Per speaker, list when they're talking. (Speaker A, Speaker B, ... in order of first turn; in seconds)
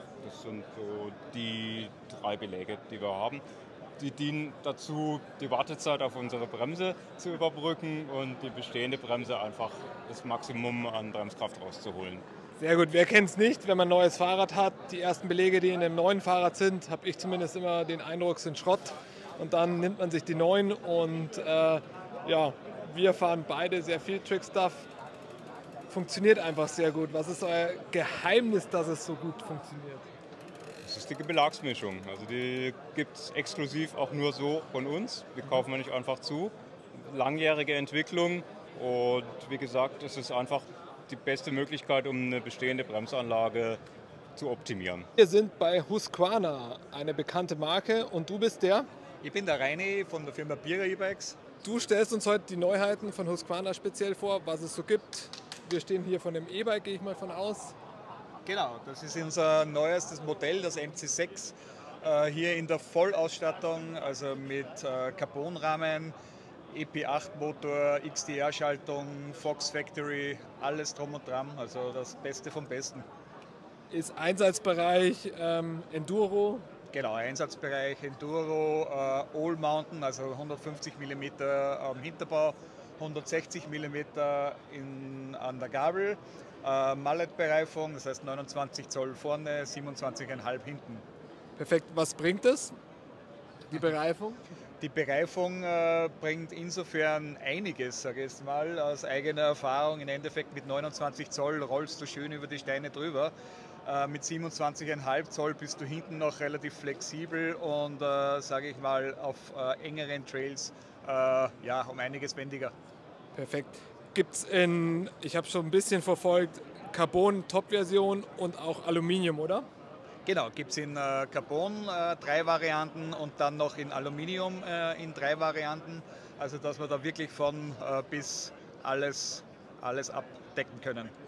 Speaker A: 0.2-3.4, 4.0-12.2, 30.9-43.8, 44.4-45.1
Speaker B: 12.6-24.9, 25.9-30.1, 45.2-48.9, 51.6-57.7, 73.9-76.7, 91.6-92.8, 93.7-94.4, 113.3-119.7
Speaker C: 49.2-51.4, 58.5-66.1, 66.7-73.1, 76.9-91.0, 94.8-103.3, 103.8-112.7, 120.3-131.1